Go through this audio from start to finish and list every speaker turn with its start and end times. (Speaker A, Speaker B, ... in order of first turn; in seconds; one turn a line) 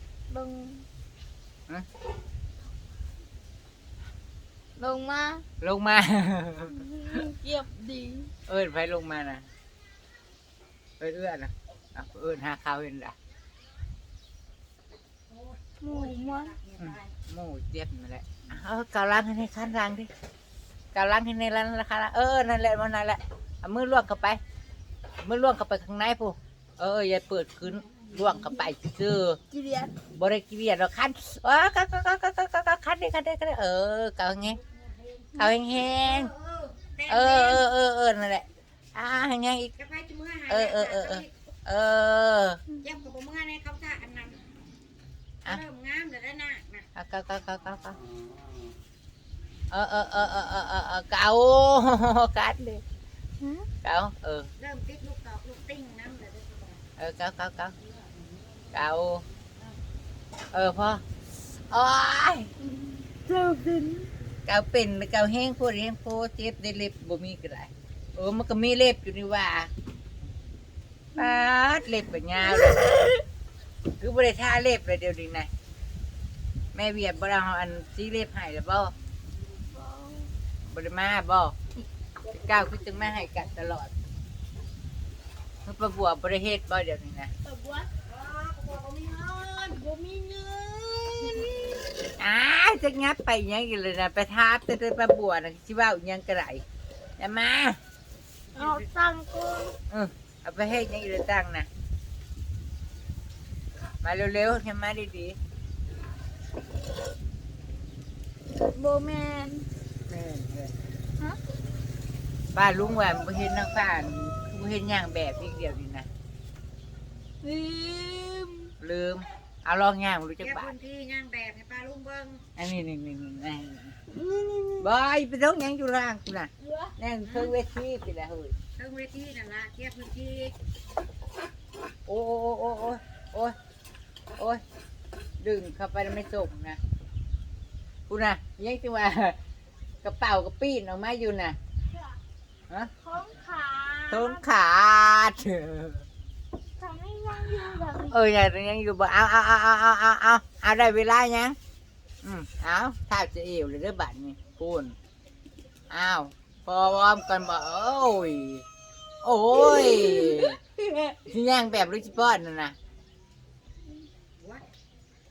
Speaker A: 0.3-0.8
Speaker A: 4.8-5.4
Speaker B: 5.6-7.2
Speaker A: 6.7-8.3
Speaker B: 8.4-9.5
Speaker B: 11.0-13.1
Speaker C: 15.3-17.1
Speaker A: 15.8-16.6
Speaker B: 16.8-20.1
Speaker B: 20.9-24.4
Speaker B: 25.2-29.4
Speaker A: 29.5-29.9
Speaker B: 30.1-34.6
Speaker B: 35.4-36.3
Speaker C: 35.9-37.7
Speaker B: 37.1-39.7
Speaker C: 39.8-41.3
Speaker B: 40.5-42.6
Speaker C: 42.8-44.4
Speaker C: 45.4-46.9
Speaker B: 47.0-48.0
Speaker B: 49.7-52.8
Speaker A: 53.4-53.7
Speaker B: 53.8-54.5
Speaker C: 54.6-56.8
Speaker B: 57.0-57.7
Speaker B: 58.7-59.2
Speaker B: 60.5-61.0
Speaker B: 61.7-62.5
Speaker A: 62.6-64.1
Speaker B: 64.5-69.7
Speaker B: 71.1-72.9
Speaker A: 72.4-73.2
Speaker B: 74.0-75.5
Speaker B: 76.7-78.9
Speaker A: 79.7-80.3
Speaker B: 80.6-81.5
Speaker B: 82.3-83.9
Speaker B: 85.7-87.3
Speaker A: 87.4-87.9
Speaker C: 88.0-89.8
Speaker A: 89.6-91.8
Speaker B: 92.2-96.6
Speaker B: 97.2-97.8
Speaker A: 98.5-99.8
Speaker B: 99.9-101.7
Speaker B: 104.0-105.4
Speaker A: 108.6-109.7
Speaker B: 110.1-110.7
Speaker B: 112.5-116.1
Speaker A: 117.4-118.7
Speaker B: 118.8-120.7
Speaker C: 120.4-122.4
Speaker B: 122.6-123.9
Speaker A: 124.1-124.9
Speaker B: 124.8-128.5
Speaker A: 126.6-126.9
Speaker C: 127.2-127.5
Speaker C: 128.8-130.5
Speaker B: 132.1-133.6
Speaker B: 134.4-134.6
Speaker B: 135.4-136.8
Speaker B: 138.1-139.4
Speaker B: 140.0-141.6
Speaker A: 143.0-144.4
Speaker B: 144.1-146.1
Speaker A: 146.8-148.2
Speaker B: 148.1-151.6
Speaker B: 152.2-154.9
Speaker B: 155.9-158.6
Speaker B: 159.2-162.8
Speaker A: 159.7-161.1
Speaker C: 164.4-164.7